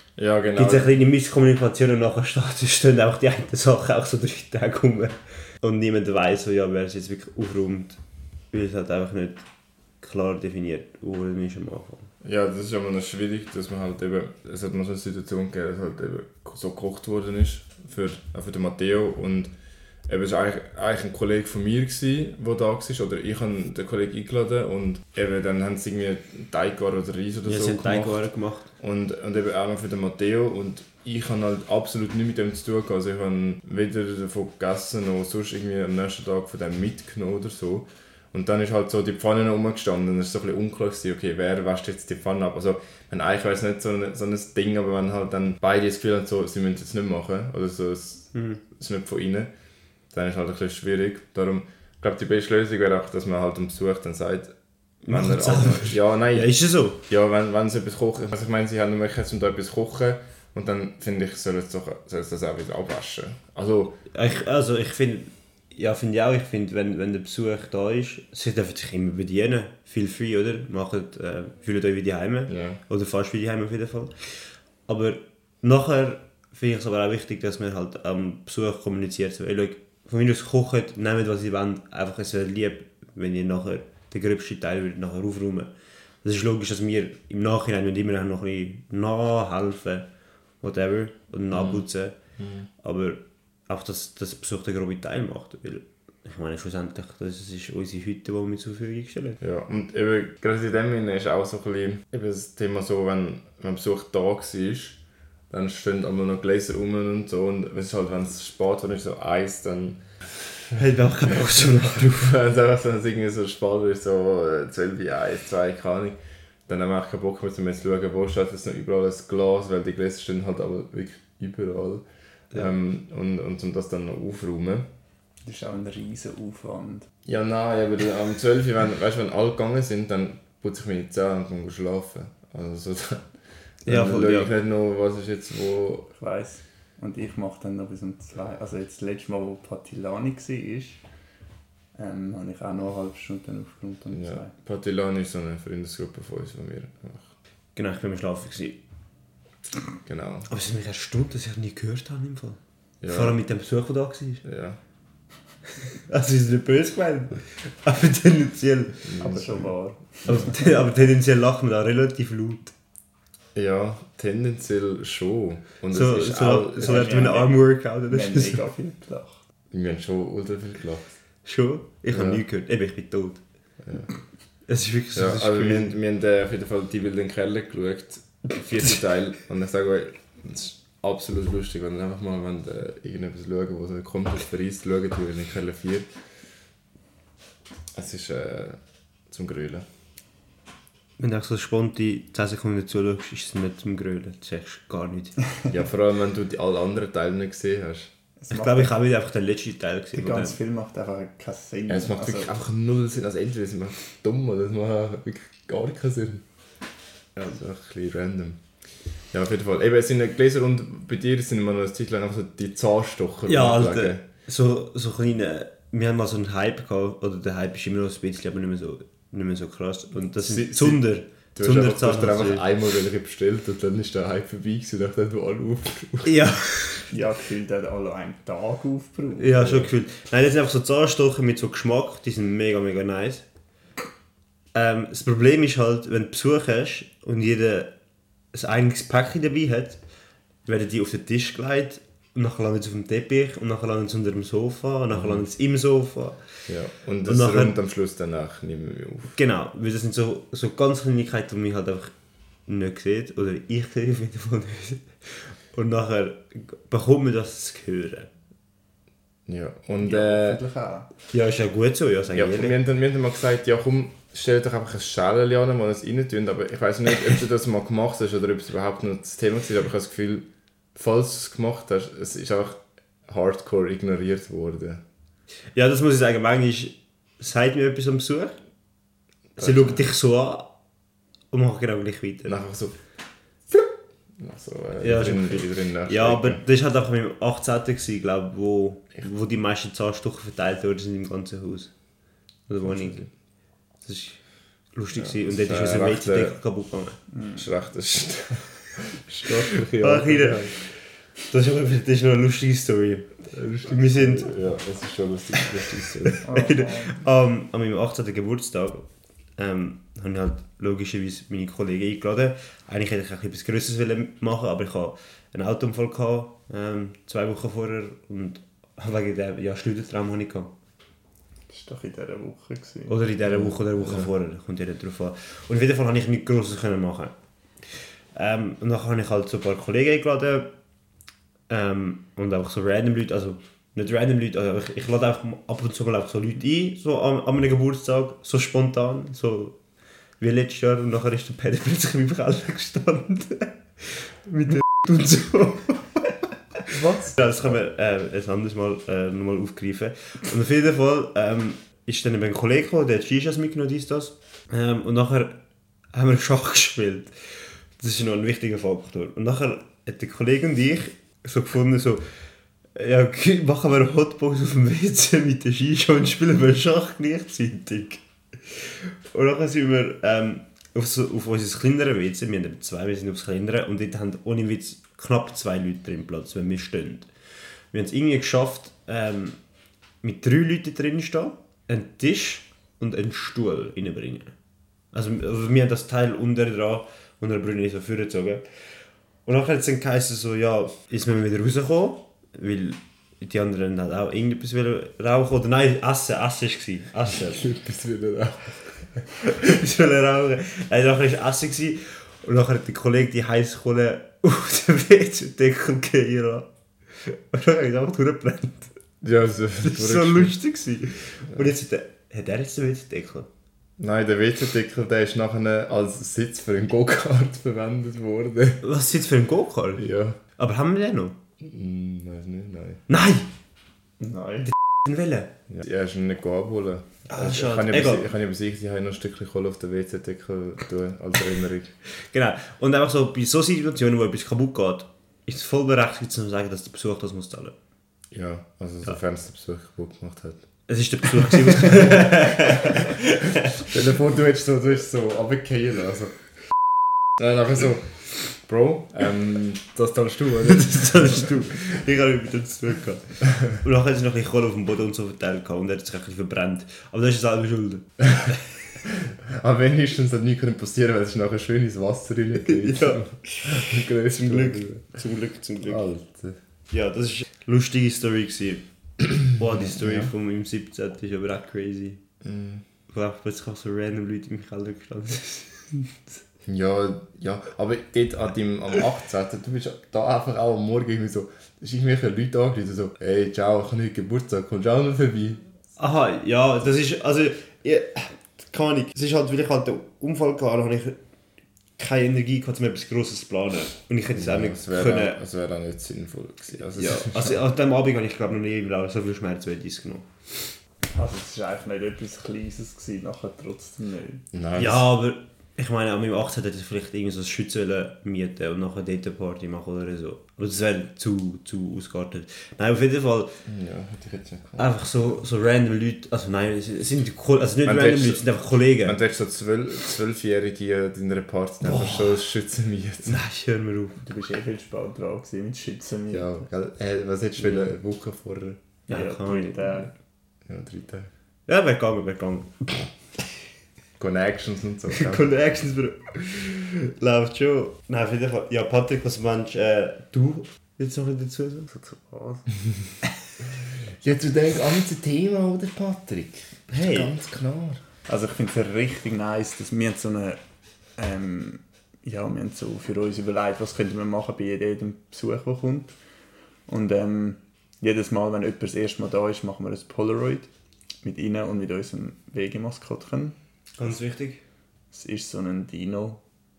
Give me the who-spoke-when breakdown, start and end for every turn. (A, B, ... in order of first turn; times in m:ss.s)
0:00.2-0:00.9 A
0:00.6-0:08.0 B
0:08.5-0:09.4 B
0:10.0-0:12.1 B
0:12.2-0:19.5 A
0:20.1-0:28.2 A
0:27.4-0:28.7 B
0:28.8-0:49.5 A
0:48.3-0:48.6 B
0:50.1-0:54.5 A
0:55.0-0:57.0 B
0:55.1-1:04.0 A
1:04.1-1:25.7 B
1:12.5-1:12.8 A
1:26.2-1:30.1 B
1:30.6-1:32.1 B
1:31.5-1:31.8 A
1:32.4-1:32.7 A
1:32.8-1:39.4 B
1:39.4-1:45.0 A
1:45.5-1:50.8 A
1:50.8-1:52.3 B
1:51.4-2:04.9 A
2:05.4-2:07.1 C
2:07.2-2:13.3 A
2:13.8-2:16.1 A
2:13.8-2:14.5 B
2:16.2-2:21.0 C
2:21.9-2:24.5 C
2:24.1-2:27.3 A
2:27.7-2:28.8 B
2:30.0-2:30.5 A
2:30.5-2:34.4 B
2:33.0-2:33.4 A
2:34.4-2:34.8 A
2:36.1-2:39.1 B
2:39.0-2:39.6 A
2:39.2-2:40.6 C
2:40.2-2:42.7 B
2:43.5-2:47.4 A
2:45.9-2:48.6 B
2:46.8-2:49.4 C
2:49.7-2:51.0 A
2:51.4-2:53.4 B
2:52.1-2:52.4 A
2:53.8-2:54.1 A
2:54.7-2:55.9 B
2:55.1-3:06.1 A
3:07.9-3:08.8 A
3:09.3-3:09.8 A
3:11.2-3:15.4 B
3:15.7-3:18.1 A
3:18.4-3:18.9 C
3:18.5-3:20.6 B
3:20.1-3:22.5 C
3:21.9-3:26.4 A
3:27.4-3:28.6 A
3:29.3-3:34.2 A
3:33.4-3:42.6 B
3:40.4-3:46.4 A
3:46.2-3:47.1 B
3:47.1-3:49.9 C
3:49.4-3:53.4 B
3:54.7-3:57.9 B
3:58.5-4:00.0 B
4:00.6-4:06.6 B
4:05.1-4:05.4 A
4:06.7-4:09.3 A
4:07.2-4:07.8 B
4:09.3-4:12.1 B
4:12.7-4:18.3 B
4:19.5-4:20.6 A
4:20.0-4:21.1 C
4:21.3-4:22.8 B
4:22.3-4:35.0 A
4:35.7-4:38.6 B
4:39.6-4:40.7 B
4:39.6-4:40.1 A
4:41.5-4:42.6 B
4:42.4-4:43.0 A
4:44.4-4:46.6 A
4:45.0-4:51.9 B
4:52.7-4:53.2 B
4:52.8-4:53.3 A
4:54.0-4:54.4 B
4:54.9-4:57.2 B
4:55.2-4:56.6 A
4:57.3-4:57.6 C
4:57.5-5:00.7 A
4:59.7-5:00.7 B
5:01.5-5:03.3 B
5:03.5-5:06.5 A
5:03.8-5:04.5 B
5:06.2-5:09.0 B
5:06.4-5:07.1 C
5:09.6-5:20.7 B
5:21.7-5:23.2 C
5:23.1-5:27.3 B
5:27.9-5:30.7 B
5:31.7-5:39.8 B
5:40.4-5:46.3 B
5:46.9-5:47.7 A
5:46.9-5:55.6 B
5:56.1-5:57.3 B
5:58.0-6:02.2 B
6:02.9-6:17.3 B
6:17.9-6:19.6 B
6:20.2-6:24.5 B
6:25.1-6:28.6 B
6:29.4-6:37.6 B
6:37.3-6:39.2 A
6:39.4-6:46.7 B
6:47.2-6:48.9 B
6:49.2-6:50.6 A
6:49.8-6:53.5 B
6:54.0-6:58.8 A
6:58.8-7:01.4 B
7:00.0-7:00.4 A
7:01.6-7:03.0 A
7:03.1-7:03.5 B
7:04.2-7:04.7 C
7:04.7-7:05.5 B
7:05.7-7:11.9 A
7:07.3-7:08.3 B
7:12.3-7:17.7 B
7:18.3-7:20.6 A
7:20.9-7:23.8 B
7:23.8-7:26.3 A
7:27.4-7:31.5 A
7:30.7-7:38.6 B
7:39.2-7:45.0 A
7:42.6-7:46.0 B
7:45.8-7:46.6 A
7:46.9-7:48.8 B
7:49.4-7:52.2 B
7:49.8-7:50.3 A
7:52.4-7:52.8 A
7:53.1-7:56.1 B
7:56.6-8:05.6 A
8:06.0-8:11.2 B
8:12.0-8:15.4 B
8:14.3-8:17.6 A
8:16.9-8:20.7 B
8:21.1-8:24.4 C
8:24.5-8:25.0 A
8:24.8-8:33.6 B
8:33.6-8:34.9 A
8:34.8-8:39.2 B
8:37.8-8:38.4 A
8:39.0-8:43.4 A
8:41.8-8:42.3 B
8:43.2-8:44.2 B
8:44.2-8:46.7 C
8:46.3-8:48.8 A
8:49.1-8:50.1 C
8:49.1-8:50.0 B
8:50.6-8:51.3 A
8:51.7-8:53.4 B
8:54.2-8:55.5 A
8:55.1-9:02.6 B
9:04.2-9:08.0 A
9:06.9-9:07.3 B
9:08.3-9:10.6 C
9:11.2-9:16.1 C
9:16.9-9:20.7 C
9:21.2-9:23.6 C
9:24.0-9:24.6 B
9:25.1-9:26.4 C